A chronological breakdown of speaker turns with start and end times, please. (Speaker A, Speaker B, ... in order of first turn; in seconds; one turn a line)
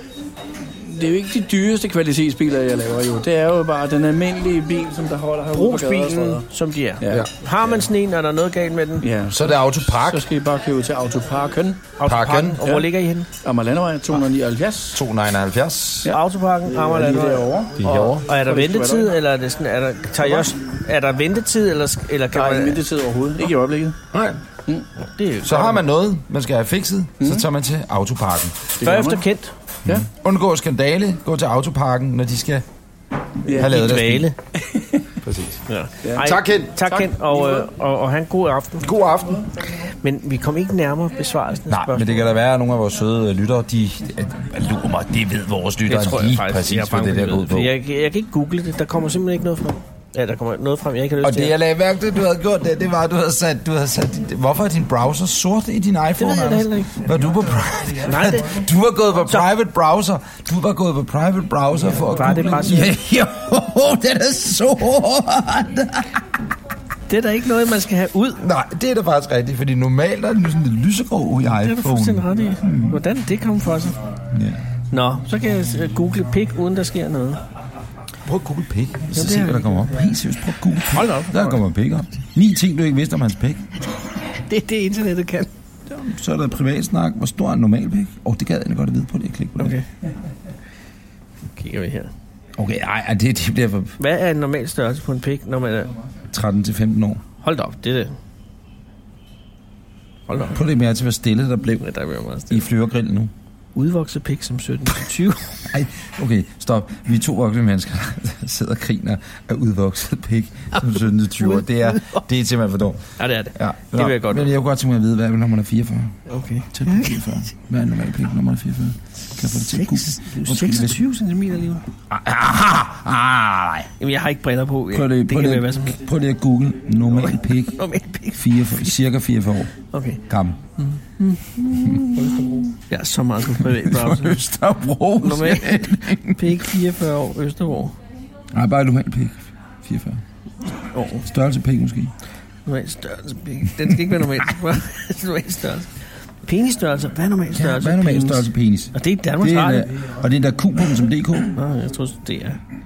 Speaker A: 0.6-6.4
Speaker B: 5.5-9.1
Speaker A: 7.0-7.3
Speaker C: 7.0-7.3
Speaker A: 9.0-11.9
Speaker C: 9.3-10.3
Speaker B: 12.0-13.3
Speaker C: 12.0-12.6
Speaker A: 12.6-12.9
Speaker A: 13.4-15.0
Speaker C: 14.9-16.1
Speaker A: 16.0-19.1
Speaker B: 16.1-22.8
Speaker C: 17.8-18.2
Speaker A: 22.3-24.0
Speaker C: 24.1-24.4
Speaker B: 25.0-25.8
Speaker C: 25.4-28.6
Speaker A: 27.2-27.4
Speaker A: 28.8-29.2
Speaker B: 28.8-29.5
Speaker C: 29.9-32.7
Speaker A: 33.5-33.8
Speaker B: 33.5-34.4
Speaker C: 33.5-34.3
Speaker A: 34.6-35.1
Speaker C: 35.2-35.6
Speaker B: 35.7-38.9
Speaker A: 36.0-37.7
Speaker C: 36.1-36.9
Speaker C: 38.8-39.5
Speaker B: 39.8-42.1
Speaker C: 41.7-47.7
Speaker B: 45.9-51.5
Speaker C: 51.2-66.2
Speaker B: 56.2-57.0
Speaker B: 58.0-58.6
Speaker B: 61.9-63.0
Speaker B: 67.1-68.4
Speaker C: 68.4-73.0
Speaker B: 71.6-74.0
Speaker C: 74.3-74.6
Speaker B: 74.9-77.4
Speaker C: 78.2-83.7
Speaker B: 79.1-79.8
Speaker B: 80.9-81.6
Speaker B: 84.3-85.5
Speaker C: 85.9-89.8
Speaker B: 89.6-89.8
Speaker B: 91.5-92.1
Speaker C: 92.6-94.0
Speaker B: 94.0-95.9
Speaker C: 96.3-97.2
Speaker B: 97.4-98.2
Speaker B: 100.3-100.6
Speaker C: 100.5-101.9
Speaker B: 101.8-102.6
Speaker C: 102.5-103.3
Speaker B: 103.8-105.6
Speaker C: 105.7-113.0
Speaker B: 111.4-112.2
Speaker B: 113.2-114.5
Speaker C: 113.5-116.2
Speaker B: 116.3-117.2
Speaker C: 116.7-121.0
Speaker B: 119.5-121.9
Speaker C: 122.1-123.9
Speaker B: 124.0-126.0
Speaker C: 124.9-127.8
Speaker B: 127.2-129.0
Speaker C: 128.3-129.7
Speaker B: 129.9-130.2
Speaker C: 130.3-130.6
Speaker B: 130.8-134.4
Speaker C: 131.8-132.4
Speaker C: 133.6-136.7
Speaker B: 135.2-137.9
Speaker C: 138.5-140.2
Speaker B: 140.9-141.3
Speaker C: 141.2-142.1
Speaker B: 142.7-149.9
Speaker C: 143.8-144.4
Speaker C: 147.5-151.6
Speaker B: 151.5-152.6